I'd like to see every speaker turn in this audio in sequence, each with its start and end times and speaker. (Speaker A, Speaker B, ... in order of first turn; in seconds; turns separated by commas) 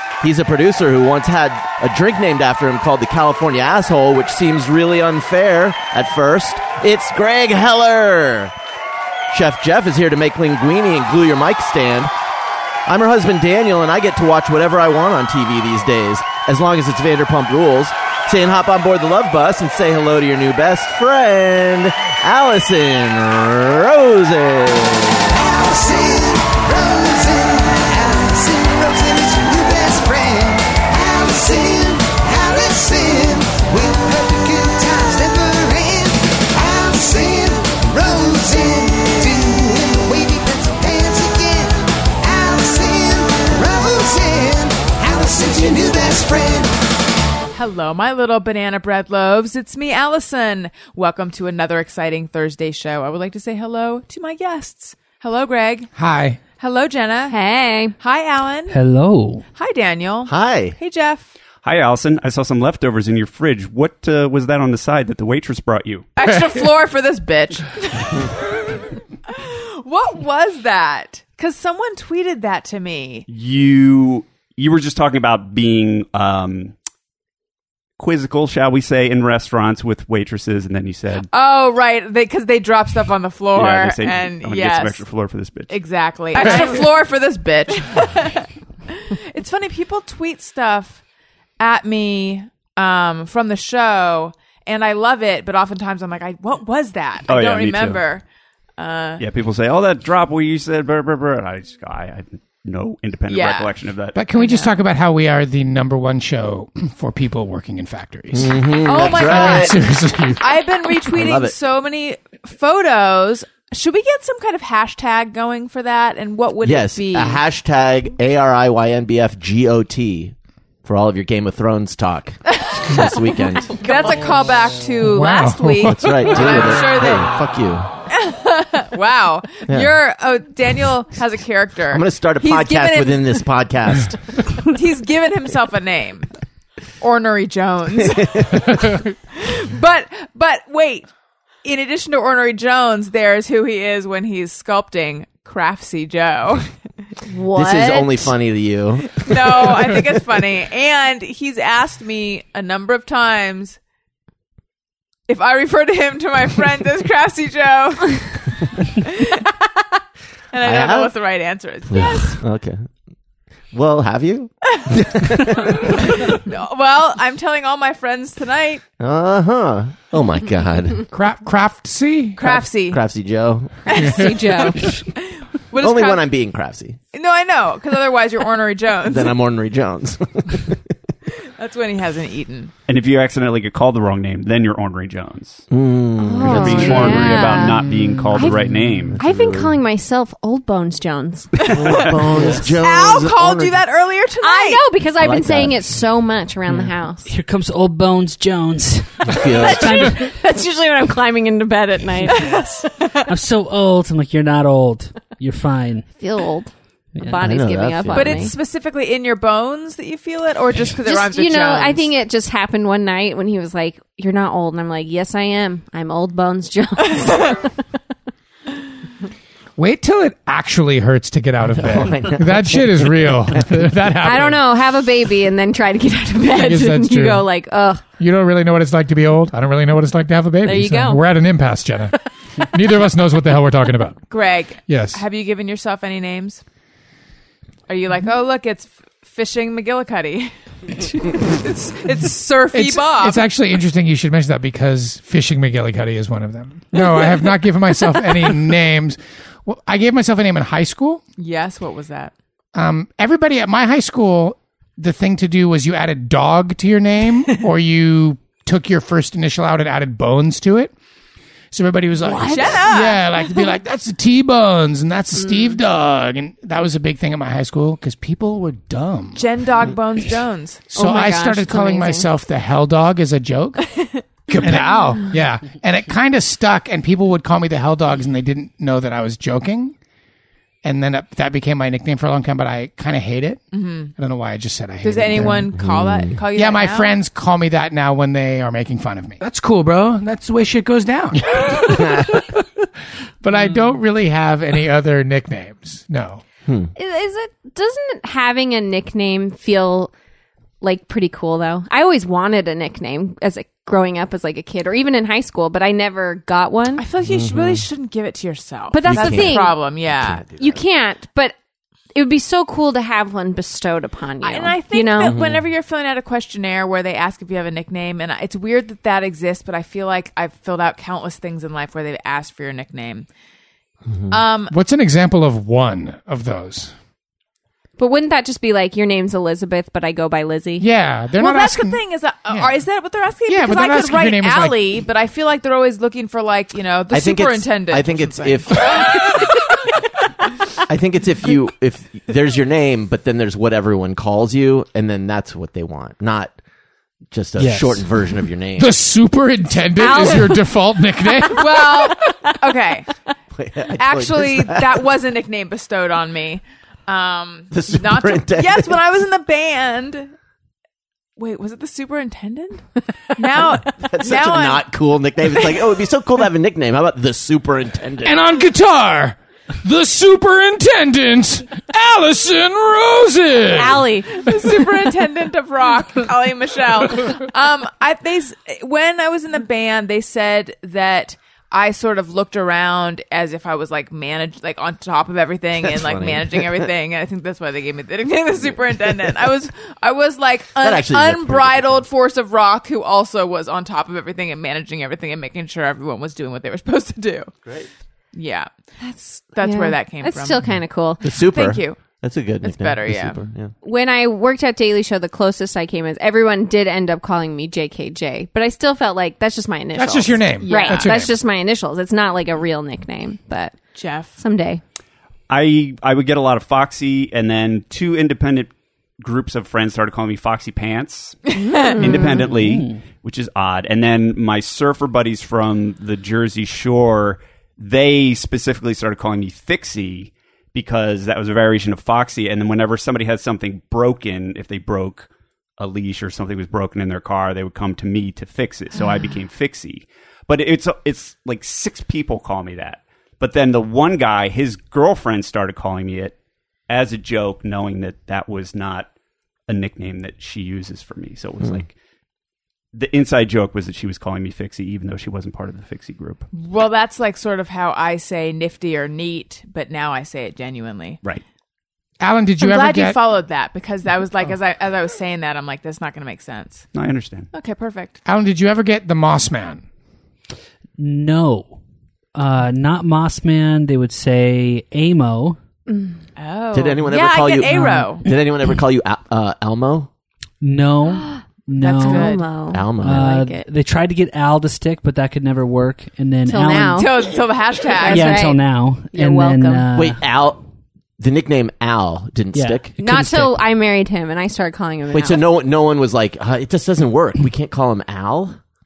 Speaker A: 0.2-8.5, Speaker A: 9.3-12.1, Speaker A: 12.9-25.3, Speaker B: 25.3-46.8, Speaker C: 47.5-55.9, Speaker D: 56.0-56.4, Speaker C: 56.6-57.4, Speaker E: 57.3-57.9, Speaker C: 58.0-58.8, Speaker F: 58.7-59.4, Speaker C: 59.5-61.3, Speaker A: 60.3-60.8, Speaker G: 61.6-66.1, Speaker C: 66.2-73.3, Speaker G: 73.3-76.7, Speaker G: 78.0-81.3, Speaker C: 81.3-85.0, Speaker G: 83.5-85.7, Speaker C: 85.7-91.0, Speaker C: 91.6-98.2, Speaker G: 97.3-98.0, Speaker C: 98.8-99.2, Speaker G: 99.2-104.2, Speaker C: 103.3-103.7, Speaker D: 104.2-110.4, Speaker C: 104.3-104.8, Speaker A: 108.3-109.8, Speaker C: 108.9-117.4, Speaker A: 111.1-111.5, Speaker A: 116.6-123.8, Speaker C: 123.8-127.3, Speaker D: 125.0-126.5, Speaker A: 125.8-127.9, Speaker C: 128.1-133.4, Speaker A: 129.7-129.9, Speaker A: 131.9-134.2, Speaker C: 134.7-136.3, Speaker C: 137.0-141.1, Speaker C: 141.6-146.7, Speaker E: 147.3-148.3, Speaker A: 147.6-149.9, Speaker C: 149.1-153.8, Speaker C: 155.3-158.4, Speaker C: 159.0-160.0, Speaker C: 160.5-162.4, Speaker A: 160.6-161.1, Speaker A: 161.9-162.9, Speaker A: 163.7-166.2, Speaker C: 165.7-168.8, Speaker A: 169.0-171.1, Speaker D: 171.1-172.6, Speaker C: 172.4-173.0, Speaker A: 172.4-173.8, Speaker C: 173.9-176.3, Speaker E: 174.0-174.9, Speaker A: 175.8-177.0, Speaker C: 177.1-179.3, Speaker A: 179.1-180.8, Speaker C: 181.3-182.7, Speaker G: 182.9-185.7, Speaker A: 185.7-187.5, Speaker E: 186.2-188.6, Speaker G: 186.4-189.2, Speaker A: 189.1-189.7, Speaker E: 189.2-192.0, Speaker A: 191.7-193.8, Speaker C: 191.7-194.8, Speaker F: 192.4-192.7, Speaker E: 194.4-197.3, Speaker A: 195.2-195.9, Speaker F: 196.7-200.3, Speaker A: 199.3-200.1, Speaker E: 199.4-202.9, Speaker C: 202.5-203.2, Speaker F: 203.3-206.1, Speaker E: 206.2-208.5, Speaker F: 207.2-207.7, Speaker A: 207.4-208.5, Speaker C: 208.1-212.1, Speaker E: 211.1-217.7, Speaker C: 217.2-217.5, Speaker D: 219.8-224.6, Speaker A: 221.8-223.7, Speaker E: 224.2-228.0, Speaker D: 226.5-227.4, Speaker D: 228.2-234.2, Speaker E: 230.6-231.2, Speaker C: 234.3-236.6, Speaker D: 234.9-235.2, Speaker C: 237.9-243.4, Speaker D: 242.7-251.2, Speaker C: 251.4-252.3, Speaker D: 252.7-260.9, Speaker D: 261.7-269.5, Speaker E: 262.2-262.8, Speaker C: 262.3-263.2, Speaker E: 265.4-265.8, Speaker C: 269.3-270.8, Speaker D: 270.9-279.9, Speaker E: 270.9-272.3, Speaker D: 280.8-283.6, Speaker C: 283.7-284.1, Speaker D: 284.2-285.6, Speaker C: 285.0-287.2, Speaker A: 285.4-286.4, Speaker D: 286.6-292.6, Speaker A: 291.9-292.3, Speaker D: 293.4-296.4, Speaker A: 296.7-296.9, Speaker E: 297.0-300.1, Speaker E: 300.8-307.1, Speaker C: 307.0-310.5, Speaker A: 307.2-307.9, Speaker E: 308.9-309.8, Speaker A: 309.1-310.8, Speaker E: 310.6-311.6, Speaker E: 312.1-315.4, Speaker C: 314.4-323.3, Speaker A: 315.2-315.6, Speaker A: 324.1-324.4, Speaker C: 324.3-324.8, Speaker D: 324.7-326.9, Speaker E: 328.0-330.9, Speaker D: 330.8-332.7, Speaker C: 331.3-339.3, Speaker D: 333.5-334.8, Speaker A: 337.1-339.0, Speaker A: 340.9-346.5, Speaker A: 347.3-349.0, Speaker F: 347.6-348.1, Speaker D: 348.8-351.8, Speaker E: 349.9-352.6, Speaker C: 351.5-353.1, Speaker A: 353.6-355.0, Speaker C: 354.0-360.3, Speaker A: 357.7-359.0, Speaker C: 361.4-364.8, Speaker A: 364.0-368.4, Speaker D: 368.2-374.1, Speaker E: 373.7-374.3, Speaker C: 374.3-397.5, Speaker A: 385.9-386.8, Speaker A: 390.8-392.1, Speaker C: 398.3-398.7, Speaker E: 399.0-401.2, Speaker C: 399.5-400.7, Speaker C: 401.2-402.0, Speaker A: 401.2-403.7, Speaker C: 402.6-403.4, Speaker E: 403.8-413.8, Speaker D: 409.9-411.4, Speaker C: 410.6-411.1, Speaker C: 414.0-414.4, Speaker E: 414.4-414.8, Speaker G: 415.5-446.4, Speaker C: 421.6-421.9, Speaker E: 421.7-422.4, Speaker F: 422.1-423.1, Speaker G: 446.9-449.1, Speaker G: 449.7-451.9, Speaker G: 452.9-456.5, Speaker C: 456.5-461.2, Speaker D: 462.2-463.2, Speaker C: 462.6-466.9, Speaker G: 466.9-467.5, Speaker C: 467.5-468.2, Speaker D: 468.2-469.8, Speaker F: 471.0-471.8, Speaker F: 472.4-475.6, Speaker E: 475.9-476.2, Speaker C: 476.4-478.2, Speaker A: 476.7-480.1, Speaker F: 480.6-482.4, Speaker C: 481.8-482.4, Speaker E: 482.0-483.7, Speaker A: 482.7-483.3, Speaker F: 483.0-487.1, Speaker E: 486.5-487.1, Speaker C: 487.0-488.5, Speaker E: 488.0-489.9, Speaker F: 488.0-490.2, Speaker A: 489.9-490.6, Speaker A: 491.2-492.9, Speaker F: 492.5-493.5, Speaker E: 493.0-495.4, Speaker A: 495.1-498.6